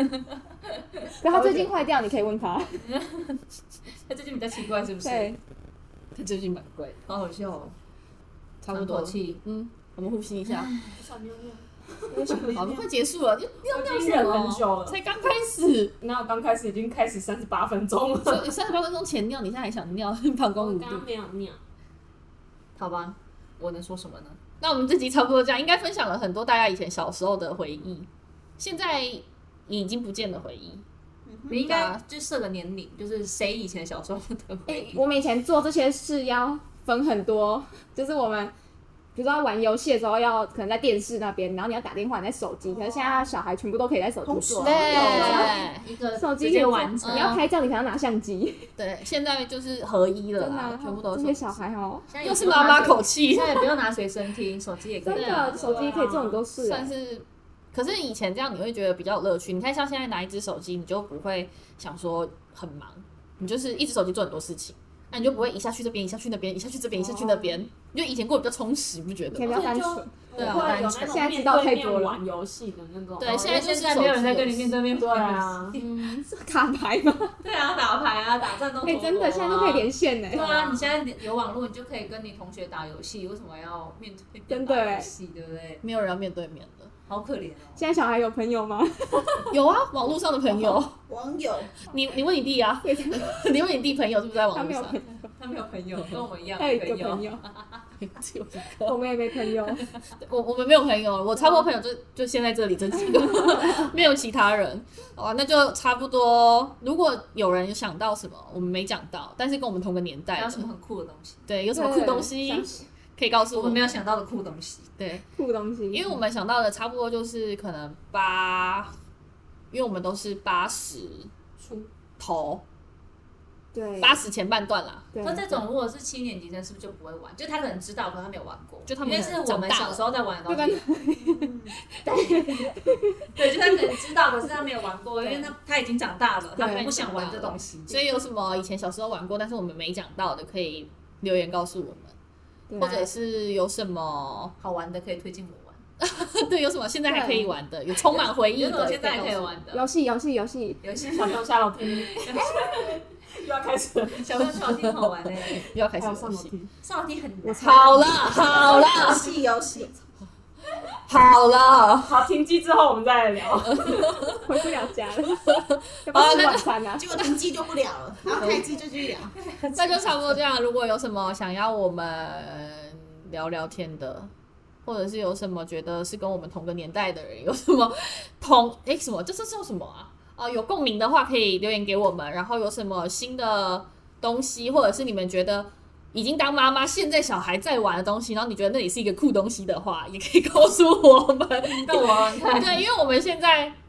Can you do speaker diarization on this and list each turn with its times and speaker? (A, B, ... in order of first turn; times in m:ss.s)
0:01.2-0:02.8 A
0:01.2-0:01.7 B
0:02.8-0:03.4 C
0:04.1-0:05.3 C
0:05.0-0:05.4 A
0:06.2-0:07.0 B
0:07.1-0:07.7 C
0:08.6-0:10.7 B
0:08.7-0:09.4 C
0:10.5-0:11.0 C
0:11.0-0:12.5 D
0:12.1-0:12.5 A
0:12.2-0:12.9 E
0:12.5-0:16.0 B
0:13.7-0:15.0 D
0:16.0-0:18.5 D
0:18.2-0:21.1 B
0:20.6-0:21.6 D
0:22.8-0:24.4 C
0:24.6-0:28.1 B
0:28.6-0:30.8 B
0:31.3-0:31.6 E
0:31.5-0:35.0 C
0:31.6-0:32.0 B
0:34.7-0:38.5 A
0:39.2-0:45.5 A
0:42.7-0:43.3 E
0:44.2-0:45.5 E
0:44.6-0:45.8 B
0:44.9-0:47.4 C
0:46.2-0:48.7 A
0:47.0-0:47.4 B
0:48.8-0:51.6 B
0:50.4-0:52.1 A
0:52.1-0:56.4 C
0:52.2-0:53.7 B
0:55.0-0:56.9 A
0:55.1-0:56.0 B
0:55.7-0:56.1 D
0:56.6-1:09.8 B
1:07.0-1:07.6 A
1:09.3-1:10.2 A
1:09.5-1:13.6 D
1:10.4-1:10.9 B
1:10.4-1:11.2 C
1:11.0-1:12.2 A
1:13.2-1:14.8 B
1:13.2-1:15.9 C
1:15.0-1:15.8 D
1:15.7-1:16.3 B
1:15.8-1:17.4 A
1:17.4-1:25.8 C
1:18.8-1:20.9 A
1:24.5-1:25.1 A
1:25.8-1:26.9 B
1:27.1-1:27.8 C
1:27.8-1:29.6 A
1:29.5-1:31.0 B
1:31.1-1:31.8 E
1:31.9-1:35.0 B
1:32.8-1:33.4 A
1:34.5-1:35.3 A
1:35.4-1:37.8 C
1:36.0-1:36.2 B
1:36.6-1:37.4 A
1:38.0-1:39.0 B
1:38.8-1:39.9 A
1:40.2-1:50.7 B
1:41.4-1:41.6 A
1:43.1-1:43.7 A
1:50.4-1:51.5 C
1:51.5-1:53.9 B
1:51.7-1:52.9 A
1:53.5-1:54.9 C
1:55.0-1:55.3 B
1:55.4-1:56.2 A
1:55.9-1:58.9 B
1:59.7-2:01.3 B
2:01.6-2:01.9 D
2:02.2-2:02.6 B
2:03.7-2:04.2 A
2:04.0-2:05.1 B
2:05.1-2:05.6 A
2:05.2-2:10.8 C
2:08.9-2:10.1 B
2:10.5-2:11.5 A
2:11.2-2:11.8 E
2:12.0-2:18.0 C
2:12.2-2:13.8 A
2:15.2-2:15.5 A
2:16.6-2:22.1 B
2:22.7-2:23.1 A
2:22.8-2:24.5 B
2:24.6-2:25.8 C
2:26.0-2:29.6 B
2:27.1-2:27.5 A
2:27.9-2:29.9 C
2:29.7-2:30.8 A
2:30.8-2:31.5 C
2:31.1-2:34.4 D
2:32.0-2:32.6 C
2:34.2-2:35.7 C
2:34.4-2:36.5 B
2:36.0-2:36.7 D
2:36.8-2:39.1 C
2:37.4-2:38.3 A
2:37.6-2:39.3 B
2:38.4-2:40.0 E
2:41.1-2:42.2 B
2:42.1-2:44.2 D
2:43.6-2:44.5 B
2:44.4-2:47.2 A
2:45.4-2:46.7 B
2:47.0-2:49.3 E
2:48.3-2:48.6 B
2:49.4-2:50.4 C
2:49.8-2:54.3 B
2:54.8-3:13.8 B
3:11.7-3:12.8 C